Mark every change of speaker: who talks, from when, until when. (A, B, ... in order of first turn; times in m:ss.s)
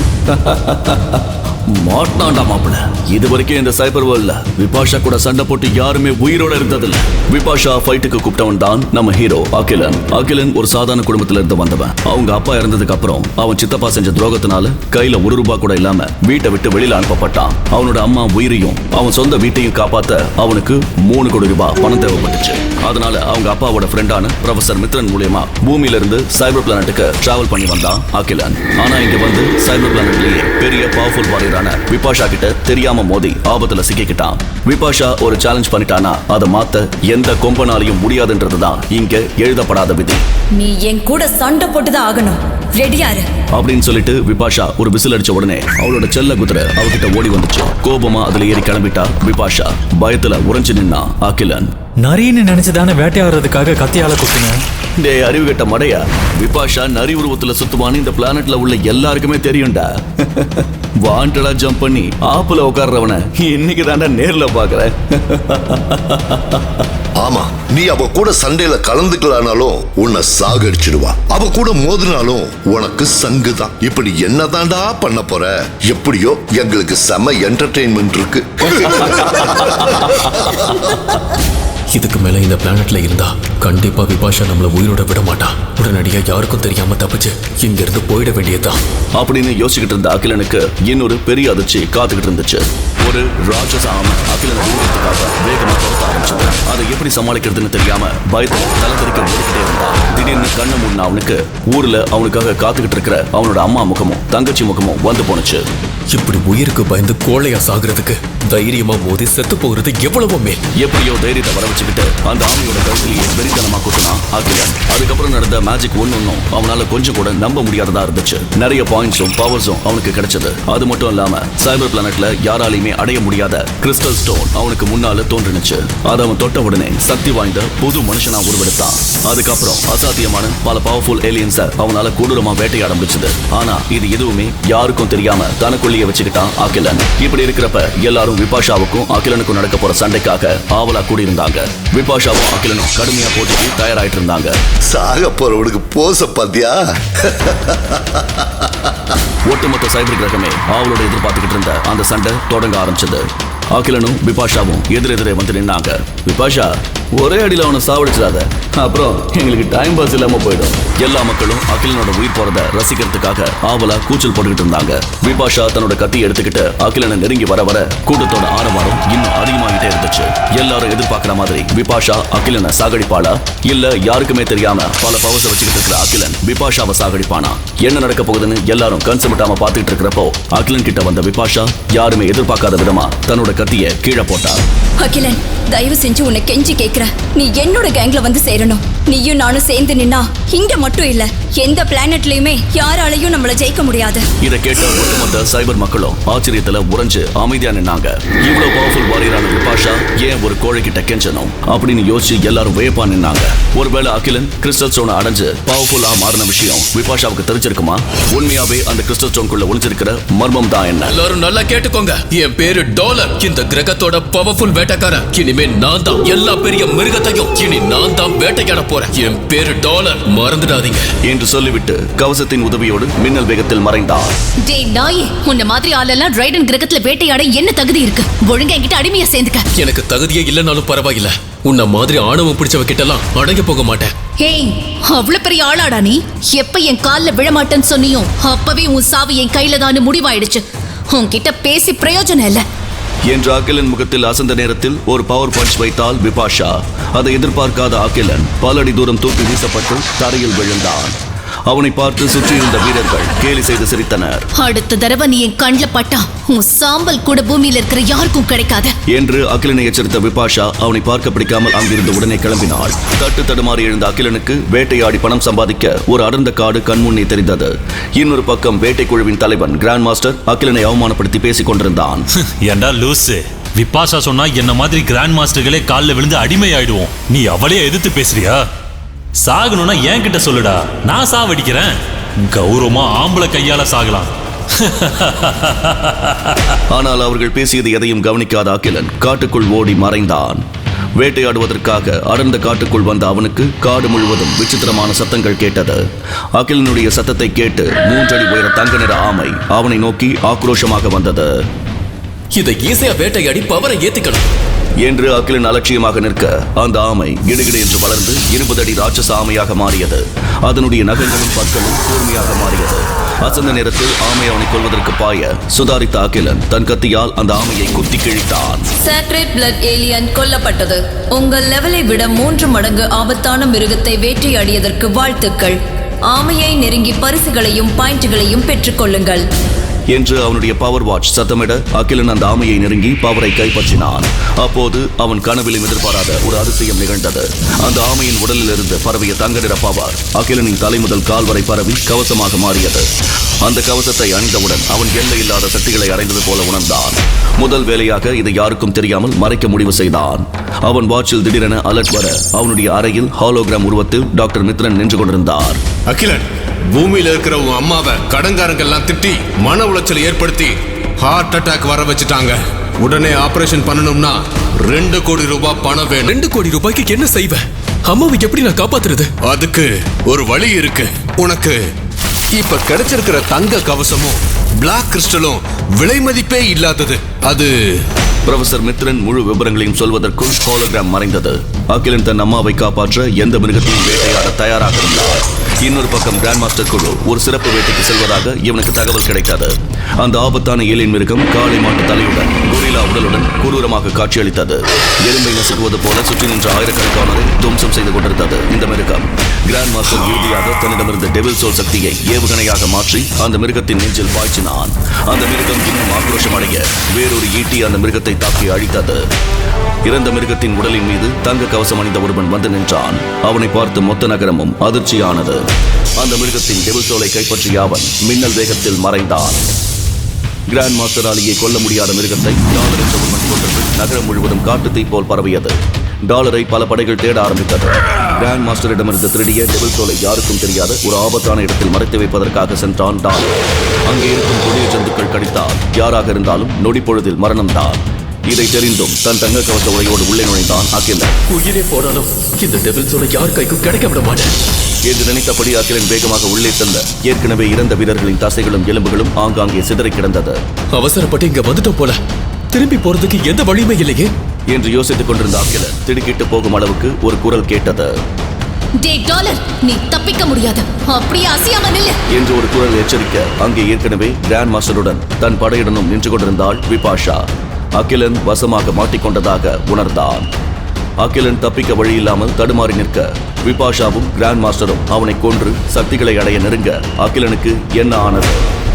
0:00.3-0:40.2 A
0:40.6-0:43.2 B
0:43.5-0:51.7 A
0:52.0-0:54.6 C
0:55.0-1:06.8 A
1:07.2-1:21.2 D
1:21.9-1:28.8 E
1:29.2-1:45.6 A
1:46.1-1:50.6 E
1:50.8-2:24.6 A
2:24.9-2:29.2 D
2:29.4-3:04.6 A
3:05.0-3:14.2 B
3:14.4-3:31.2 A
3:31.1-3:41.1 E
3:41.2-3:44.3 A
3:44.6-3:49.6 F
3:49.7-3:54.1 E
3:54.4-4:02.6 F
4:03.2-4:11.1 A
4:11.7-4:14.4 A
4:14.5-4:18.9 F
4:19.1-4:32.2 A
4:32.6-4:38.6 G
4:39.4-4:41.9 G
4:42.5-4:44.3 G
4:44.8-4:46.5 G
4:46.9-4:50.6 A
4:51.2-4:56.0 A
4:56.5-5:01.5 A
5:02.5-5:04.5 E
5:05.0-5:18.9 A
5:19.0-5:25.8 B
5:26.3-5:29.4 B
5:30.1-5:43.1 A
5:43.6-5:55.8 A
5:56.1-6:06.4 H
6:06.3-6:09.4 E
6:09.4-6:11.8 H
6:12.6-6:17.7 H
6:18.4-6:49.2 A
6:50.0-6:55.6 A
6:56.2-6:59.6 A
7:00.7-7:13.5 A
7:14.0-7:21.3 A
7:21.5-7:24.5 E
7:25.0-7:30.6 A
7:30.9-7:32.2 E
7:32.7-7:34.3 E
7:34.7-7:38.1 A
7:39.0-7:42.2 F
7:42.3-7:47.4 A
7:48.0-7:50.5 A
7:51.2-7:58.6 A